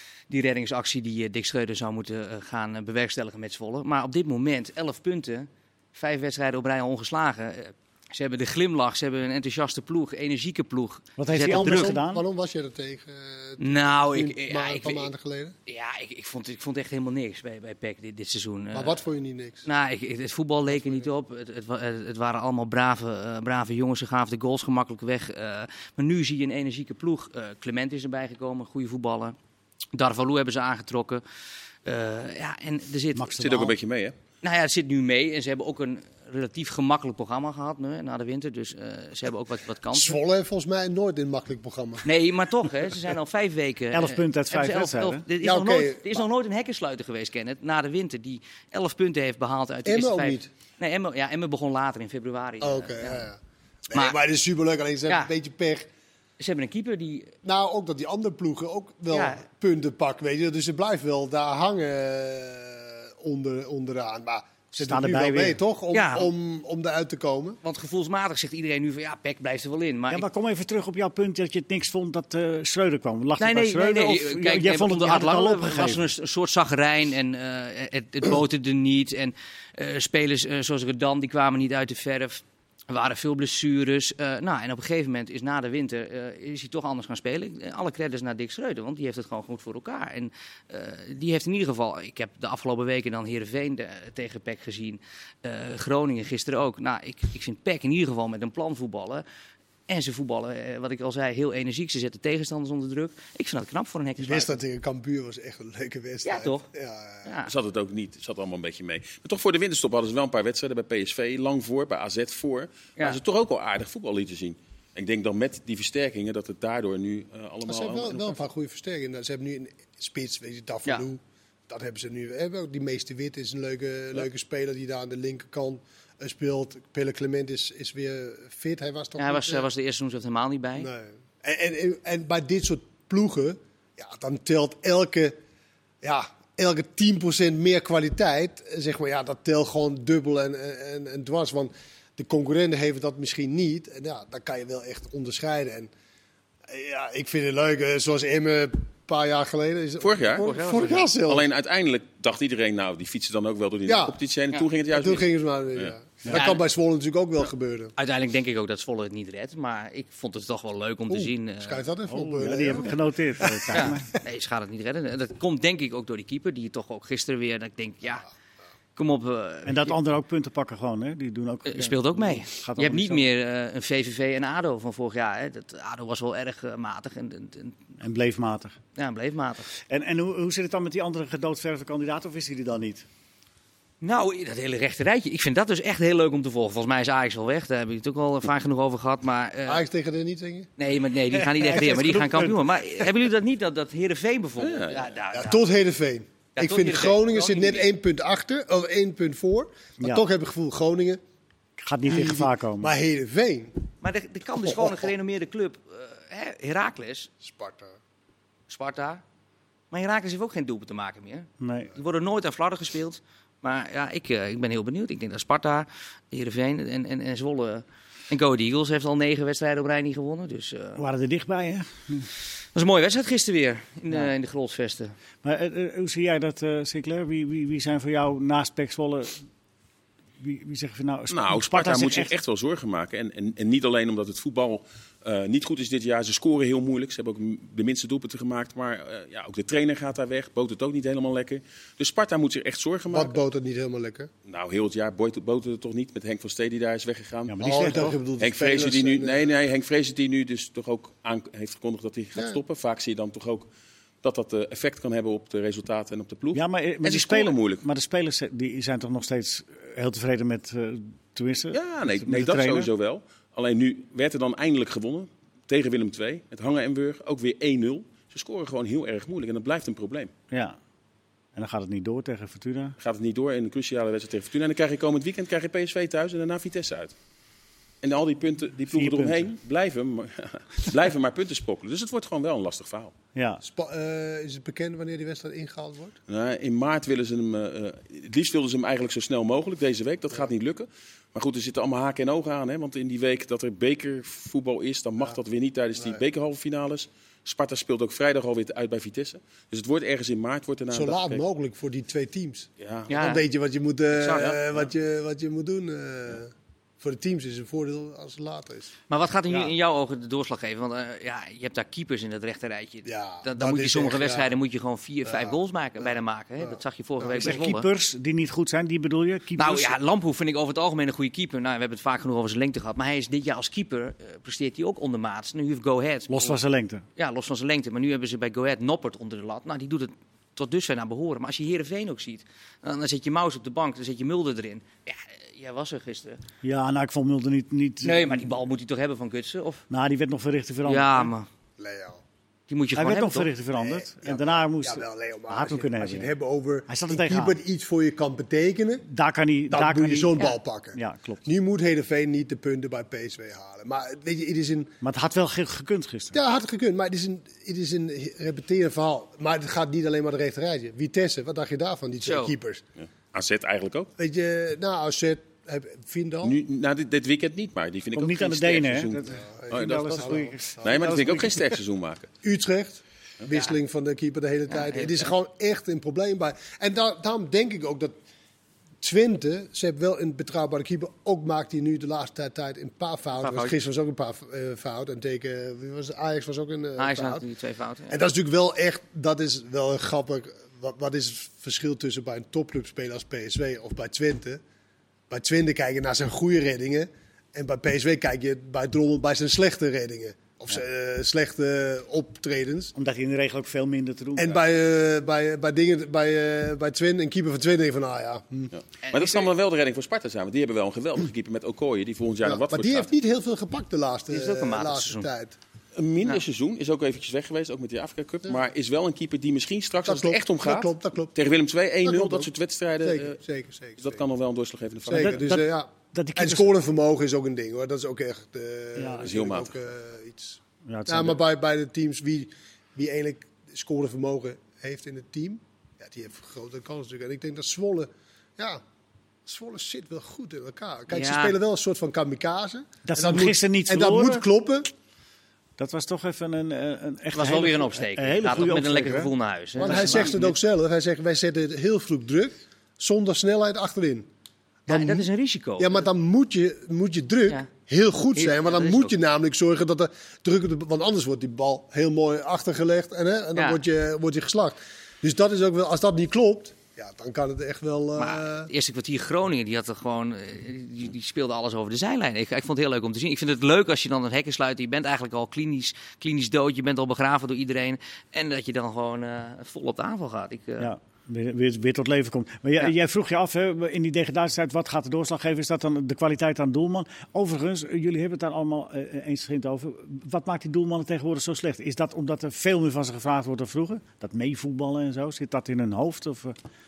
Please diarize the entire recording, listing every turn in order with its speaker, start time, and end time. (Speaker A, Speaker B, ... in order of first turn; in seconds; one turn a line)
Speaker A: 0.3-12.0
Speaker B: 11.2-12.2
Speaker C: 11.4-15.6
Speaker A: 13.6-15.1
Speaker A: 15.7-19.0
Speaker C: 18.7-19.7
Speaker A: 19.6-29.4
Speaker A: 29.9-31.2
Speaker A: 31.9-33.7
Speaker B: 33.1-33.7
Speaker D: 33.4-34.1
Speaker A: 34.4-40.2
Speaker C: 39.9-42.1
Speaker A: 42.0-53.3
Speaker B: 43.9-45.2
Speaker C: 45.4-46.2
Speaker C: 49.9-50.5
Speaker C: 52.6-53.4
Speaker C: 53.9-55.9
Speaker A: 56.4-57.3
Speaker C: 57.4-67.6
Speaker A: 59.1-59.4
Speaker B: 64.8-65.6
Speaker A: 65.9-66.3
Speaker A: 67.6-70.2
Speaker B: 70.1-76.0
Speaker A: 73.4-99.2
Speaker A: 99.9-104.6
Speaker C: 104.2-107.3
Speaker A: 106.2-106.7
Speaker A: 107.2-107.5
Speaker D: 107.5-118.4
Speaker C: 117.7-129.7
Speaker A: 129.2-130.9
Speaker C: 130.8-135.4
Speaker C: 136.0-145.9
Speaker C: 146.7-151.5
Speaker D: 150.0-155.9
Speaker A: 150.4-151.1
Speaker C: 153.9-154.2
Speaker C: 154.9-157.9
Speaker A: 156.3-156.6
Speaker A: 158.0-161.8
Speaker C: 161.1-164.0
Speaker B: 162.1-164.1
Speaker A: 163.7-168.3
Speaker A: 169.0-170.0
Speaker B: 169.7-173.3
Speaker A: 171.7-177.8
Speaker B: 178.0-178.8
Speaker A: 179.0-179.7
Speaker B: 179.8-183.1
Speaker A: 184.0-189.8
Speaker C: 189.7-190.7
Speaker A: 190.8-195.6
Speaker C: 191.6-192.6
Speaker D: 194.6-195.1
Speaker C: 195.3-201.2
Speaker A: 196.6-197.9
Speaker B: 201.8-202.9
Speaker C: 202.1-203.8
Speaker A: 204.0-207.3
Speaker C: 204.6-205.1
Speaker C: 207.4-208.0
Speaker A: 208.7-209.2
Speaker A: 209.9-221.0
Speaker B: 211.6-211.9
Speaker B: 221.0-222.3
Speaker A: 222.7-225.1
Speaker B: 225.4-229.4
Speaker B: 230.4-232.3
Speaker D: 231.3-243.3
Speaker C: 243.1-244.3
Speaker D: 244.4-253.7
Speaker B: 247.5-248.2
Speaker C: 247.6-249.5
Speaker D: 254.2-257.8
Speaker B: 256.5-262.9
Speaker D: 261.7-270.3
Speaker B: 270.5-270.8
Speaker B: 271.6-273.0
Speaker D: 273.0-277.1
Speaker D: 278.0-283.1
Speaker B: 278.9-279.5
Speaker B: 283.4-283.6
Speaker C: 283.6-286.2
Speaker D: 286.3-301.4
Speaker C: 300.9-308.9
Speaker D: 302.8-303.1
Speaker A: 303.1-303.4
Speaker A: 304.2-304.6
Speaker D: 304.3-304.6
Speaker A: 309.1-317.9
Speaker C: 313.1-314.5
Speaker C: 315.3-315.6
Speaker C: 316.6-317.6
Speaker B: 317.4-320.0
Speaker A: 319.6-326.6
Speaker B: 326.3-327.1
Speaker A: 327.2-336.4
Speaker B: 336.6-338.5
Speaker A: 338.0-339.8
Speaker B: 339.9-341.3
Speaker A: 340.9-341.5
Speaker C: 341.8-342.2
Speaker A: 342.7-343.5
Speaker B: 343.0-346.3
Speaker C: 343.8-349.1
Speaker B: 346.9-347.6
Speaker B: 349.1-351.4
Speaker C: 349.7-355.0
Speaker B: 355.0-356.4
Speaker C: 356.3-362.8
Speaker A: 362.2-362.5
Speaker D: 363.0-364.1
Speaker C: 364.2-366.6
Speaker D: 366.4-372.3
Speaker B: 368.1-371.8
Speaker C: 369.3-370.9
Speaker C: 372.4-378.1
Speaker A: 374.7-375.3
Speaker C: 379.0-387.4
Speaker A: 383.4-383.8
Speaker A: 387.0-388.2
Speaker C: 388.1-394.6
Speaker C: 395.3-402.9
Speaker B: 403.0-404.6
Speaker C: 404.4-408.7
Speaker D: 408.7-413.1
Speaker A: 409.0-409.5
Speaker C: 412.4-415.6
Speaker A: 414.3-415.3
Speaker D: 415.9-423.4
Speaker C: 420.1-421.4
Speaker C: 422.0-422.5
Speaker C: 423.0-424.2
Speaker D: 424.0-425.6
Speaker C: 425.1-438.8
Speaker B: 425.1-426.7
Speaker B: 429.0-429.3
Speaker D: 429.2-429.7
Speaker B: 430.9-431.4
Speaker C: 439.5-444.9
Speaker A: 441.1-441.6
Speaker B: 443.1-444.4
Speaker B: 445.8-450.3
Speaker A: 447.3-450.6
Speaker C: 449.8-454.3
Speaker C: 454.9-468.7
Speaker A: 454.9-456.0
Speaker A: 458.4-459.1
Speaker A: 463.6-463.8
Speaker A: 468.2-480.9
Speaker B: 480.8-496.6